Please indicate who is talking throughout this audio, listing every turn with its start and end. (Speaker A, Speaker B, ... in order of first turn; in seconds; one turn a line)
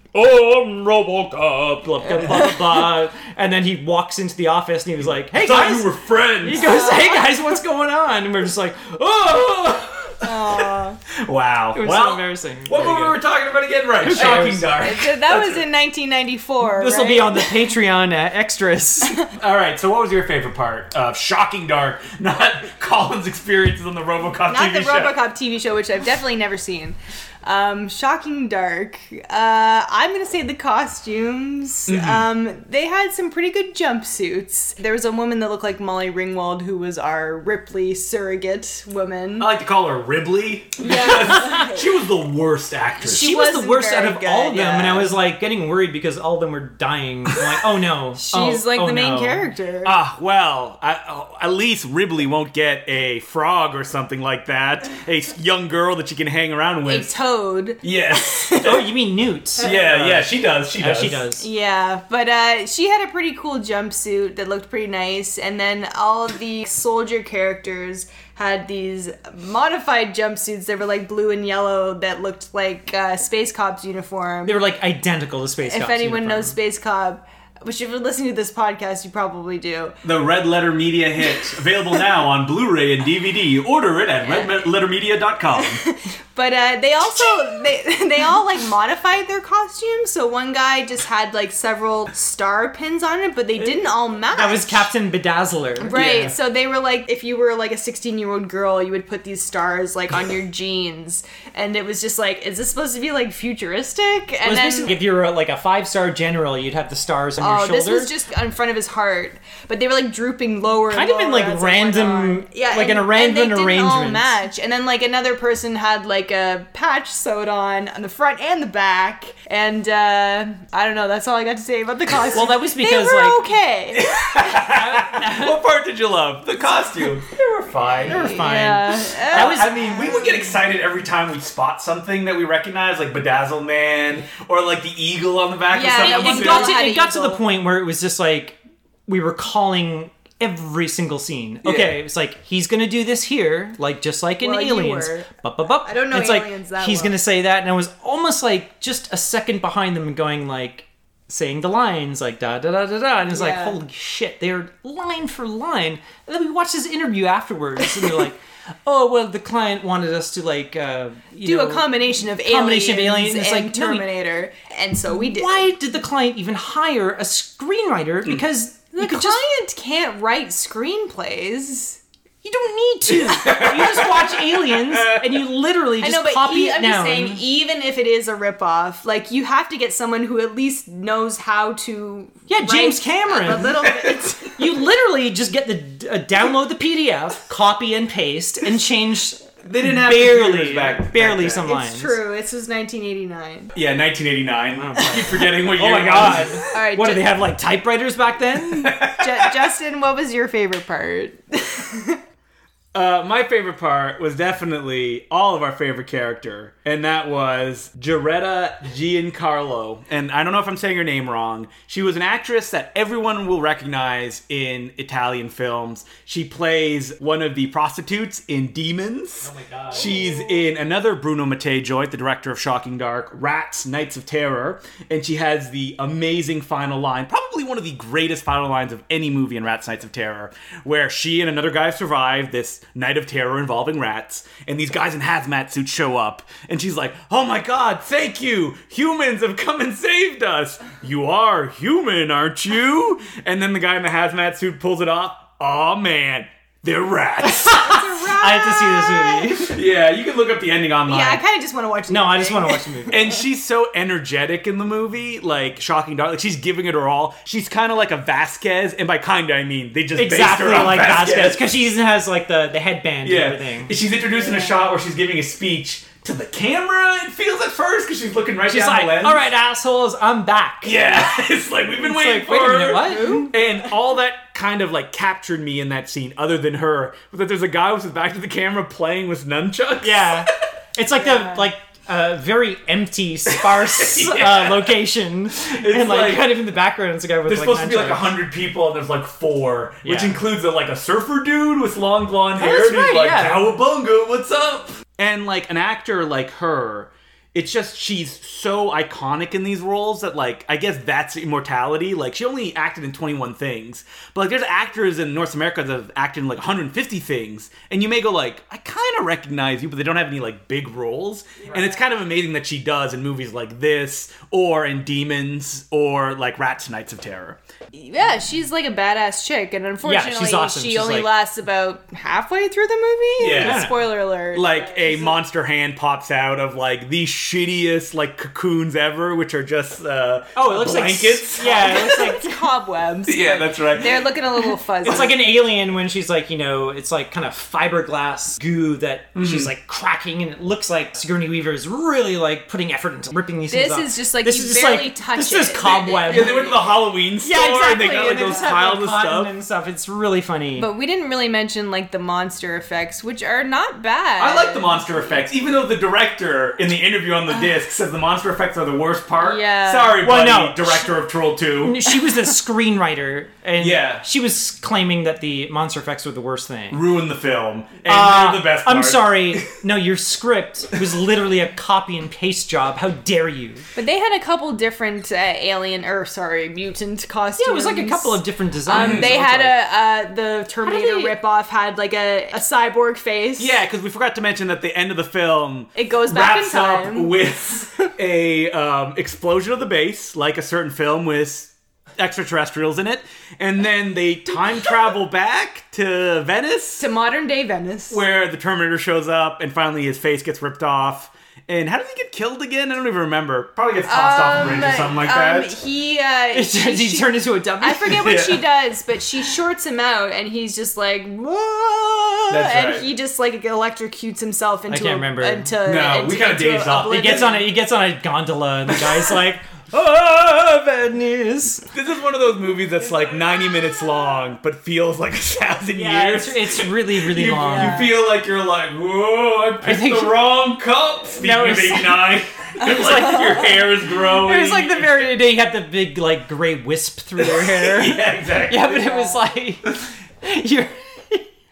Speaker A: 0.1-2.8
Speaker B: 2.0-10.2
Speaker A: 5.2-6.8
Speaker C: 6.6-7.2
Speaker C: 10.2-11.0
Speaker A: 10.6-15.6
Speaker B: 11.7-13.2
Speaker B: 14.0-14.7
Speaker C: 14.2-17.7
Speaker B: 16.6-19.2
Speaker A: 19.4-25.2
Speaker C: 24.5-39.5
Speaker A: 31.9-32.3
Speaker A: 39.4-43.3
Speaker C: 40.8-41.9
Speaker B: 41.1-41.6
Speaker C: 43.0-45.1
Speaker B: 43.0-49.5
Speaker C: 48.1-49.9
Speaker A: 49.8-57.1
Speaker C: 56.9-58.8
Speaker A: 57.8-58.8
Speaker B: 58.6-61.5
Speaker A: 59.6-61.2
Speaker C: 61.4-74.6
Speaker B: 74.4-76.6
Speaker C: 75.6-80.0
Speaker A: 80.0-85.8
Speaker C: 84.2-84.5
Speaker C: 85.5-94.9
Speaker B: 94.3-96.3
Speaker C: 95.8-104.9
Speaker B: 104.4-108.1
Speaker C: 107.4-124.3
Speaker B: 110.9-114.3
Speaker B: 122.3-123.5
Speaker A: 123.9-128.3
Speaker B: 124.4-125.6
Speaker C: 127.8-130.6
Speaker B: 128.0-129.9
Speaker A: 129.2-136.8
Speaker C: 135.7-137.4
Speaker B: 135.9-164.1
Speaker A: 141.6-141.9
Speaker C: 144.4-145.3
Speaker C: 145.8-147.2
Speaker C: 153.3-153.8
Speaker C: 161.4-165.6
Speaker B: 165.1-169.4
Speaker C: 168.9-172.0
Speaker B: 172.4-177.4
Speaker A: 173.1-175.4
Speaker C: 176.0-184.6
Speaker B: 182.5-183.8
Speaker A: 183.8-184.5
Speaker B: 184.6-192.2
Speaker A: 189.6-191.7
Speaker C: 191.6-193.7
Speaker A: 193.7-196.6
Speaker B: 194.8-199.0
Speaker C: 196.7-197.3
Speaker A: 198.7-199.5
Speaker C: 199.0-202.2
Speaker A: 202.9-248.0
Speaker B: 219.4-220.1
Speaker C: 220.0-220.3
Speaker B: 247.6-249.8
Speaker C: 247.6-249.6
Speaker A: 249.7-251.4
Speaker C: 251.1-253.2
Speaker B: 252.1-253.2
Speaker A: 253.1-261.7
Speaker B: 260.2-263.9
Speaker A: 263.2-269.4
Speaker C: 264.2-264.8
Speaker B: 268.6-271.3
Speaker A: 270.8-280.5
Speaker B: 271.9-273.5
Speaker C: 273.0-273.5
Speaker B: 280.0-288.4
Speaker C: 281.2-281.7
Speaker A: 283.5-285.0
Speaker A: 285.5-286.6
Speaker A: 287.4-317.6
Speaker B: 290.0-290.4
Speaker B: 292.6-293.8
Speaker C: 311.6-312.0
Speaker C: 317.9-325.4
Speaker B: 320.0-321.3
Speaker A: 323.4-332.2
Speaker B: 323.6-324.1
Speaker B: 330.5-332.5
Speaker C: 331.6-335.3
Speaker A: 333.2-335.3
Speaker B: 335.0-346.6
Speaker A: 339.3-339.7
Speaker C: 343.7-346.9
Speaker A: 346.2-349.5
Speaker B: 347.4-350.9
Speaker C: 350.8-355.4
Speaker A: 354.4-362.0
Speaker C: 359.3-360.2
Speaker B: 360.2-361.1
Speaker B: 361.8-367.0
Speaker A: 363.8-364.2
Speaker A: 366.9-369.6
Speaker B: 368.1-373.9
Speaker C: 373.9-383.8
Speaker B: 377.6-379.8
Speaker A: 378.9-379.3
Speaker B: 380.8-381.3
Speaker A: 383.6-397.0
Speaker C: 385.9-387.3
Speaker C: 397.0-398.2
Speaker A: 398.1-405.7
Speaker C: 404.1-417.7
Speaker B: 406.5-408.4
Speaker A: 408.2-408.6
Speaker A: 412.5-413.1
Speaker B: 414.9-415.7
Speaker A: 415.8-417.5
Speaker B: 417.1-421.9
Speaker A: 421.9-435.4
Speaker B: 425.9-428.1
Speaker C: 426.1-426.4
Speaker C: 427.6-428.1
Speaker B: 429.8-430.4
Speaker B: 431.4-432.3
Speaker B: 432.8-441.5
Speaker C: 433.1-433.4
Speaker A: 437.4-439.3